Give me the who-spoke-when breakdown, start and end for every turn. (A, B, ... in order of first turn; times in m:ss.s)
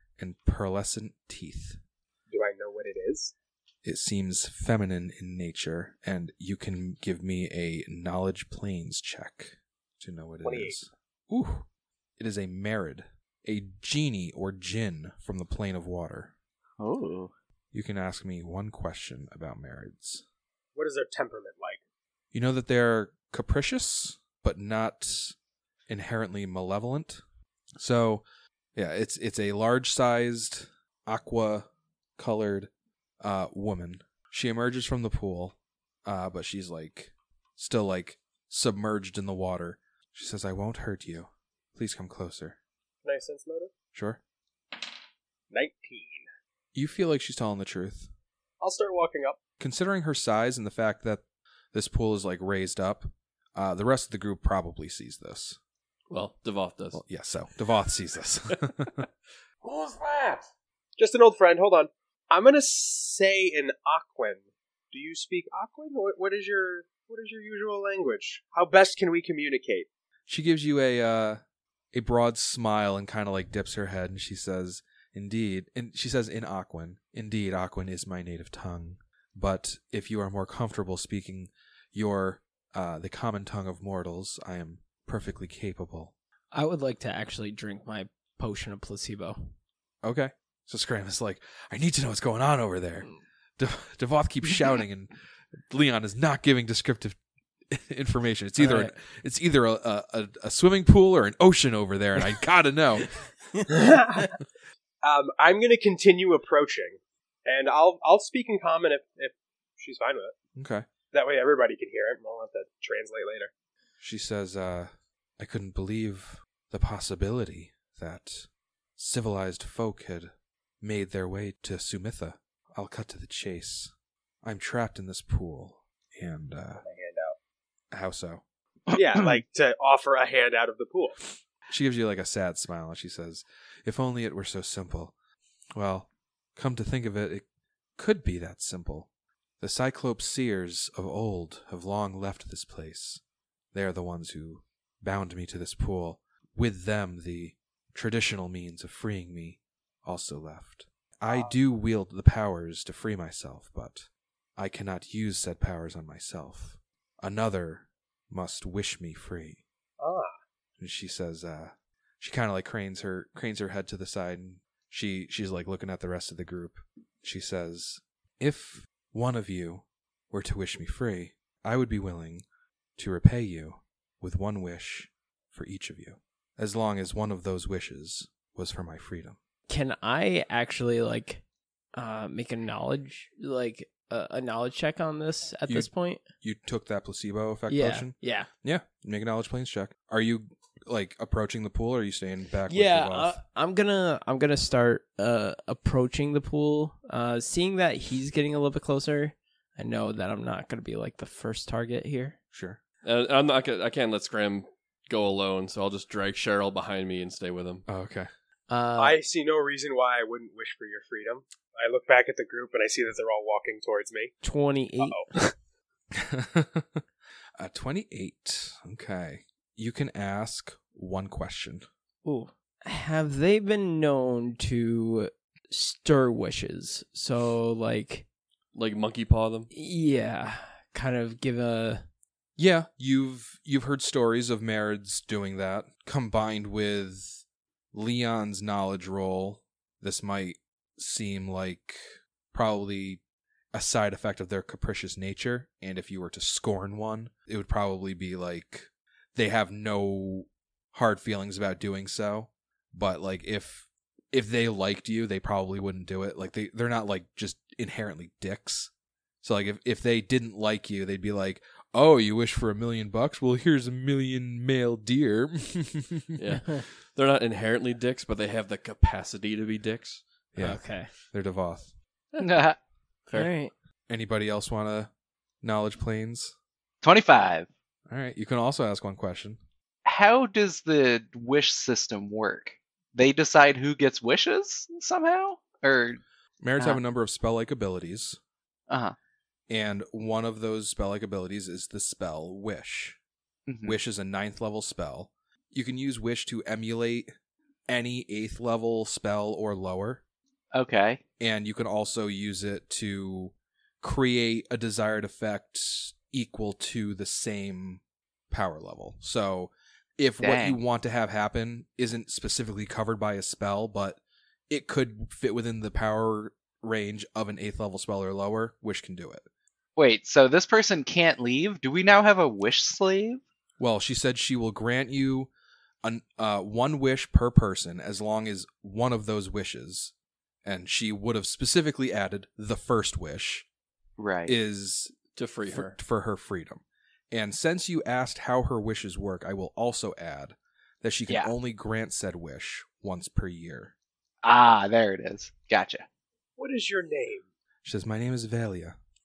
0:00.2-0:01.8 A
0:02.3-0:03.3 B
0:03.8-0:11.7 A
0:10.4-0:10.8 B
0:12.2-0:16.3 A
0:16.8-0:17.3 C
0:17.7-0:20.2 A
0:20.8-0:21.8 B
0:22.3-0:25.4 A
0:25.9-0:27.2 A
0:27.8-0:28.2 A
0:28.8-0:32.7 A
0:33.2-0:42.6 A
0:43.0-0:43.7 B
0:43.9-0:44.2 A
0:45.5-0:46.3 B
0:46.7-0:48.1 A
0:48.6-0:49.4 B
0:49.6-0:55.6 A
0:56.1-0:57.0 D
0:56.9-0:59.1 A
0:59.6-1:00.4 D
1:01.0-1:09.9 B
1:10.3-1:11.4 A
1:11.9-1:26.1 A
1:26.5-1:29.5 E
1:30.0-1:35.1 A
1:35.7-1:37.2 A
1:37.7-1:43.2 A
1:38.6-1:38.9 E
1:43.7-1:44.3 B
1:45.0-1:50.4 B
1:50.6-1:50.9 A
1:51.1-1:53.5 B
1:54.0-2:03.9 A
2:04.4-2:06.8 A
2:06.8-2:07.4 B
2:07.9-2:08.4 A
2:08.9-2:11.2 B
2:11.7-2:15.1 A
2:15.8-2:17.4 A
2:18.0-2:19.1 A
2:19.6-2:23.2 A
2:23.7-2:39.6 A
2:31.3-2:31.5 B
2:40.0-2:40.3 B
2:40.8-2:52.4 A
2:53.0-2:59.4 A
2:59.7-3:01.4 E
3:01.9-3:06.2 E
3:05.7-3:13.4 A
3:07.7-3:08.5 E
3:12.7-3:22.4 E
3:22.5-3:22.8 A
3:23.0-3:27.8 D
3:27.9-3:28.3 A
3:28.7-3:29.2 E
3:29.0-3:34.4 B
3:34.4-3:35.5 E
3:35.0-3:35.3 B
3:36.1-3:37.0 A
3:37.6-3:41.9 A
3:42.2-3:48.3 E
3:48.8-3:49.7 D
3:49.7-3:52.0 E
3:52.6-4:03.2 A
4:03.7-4:18.9 A
4:19.4-4:26.4 A
4:26.4-4:30.2 D
4:30.5-4:31.9 A
4:30.6-4:31.1 E
4:32.3-4:32.6 D
4:32.4-4:32.8 C
4:33.3-4:33.7 E
4:34.1-4:35.1 A
4:35.6-4:36.5 A
4:37.0-4:37.7 C
4:38.1-4:39.6 A
4:40.0-4:46.2 C
4:46.6-4:48.4 A
4:48.9-4:49.2 C
4:49.7-4:53.2 A
4:53.7-4:54.0 C
4:53.8-4:57.3 A
4:57.9-5:00.2 A
5:00.7-5:01.2 C
5:01.4-5:19.5 A
5:10.4-5:10.8 C
5:20.0-5:23.4 C
5:23.8-5:25.5 A
5:26.0-5:30.1 A
5:30.6-5:33.7 A
5:34.2-5:34.5 C
5:34.5-5:35.1 A
5:35.4-5:36.0 D
5:35.7-5:43.9 A
5:44.4-5:46.0 C
5:46.6-5:47.5 B
5:47.8-5:49.0 A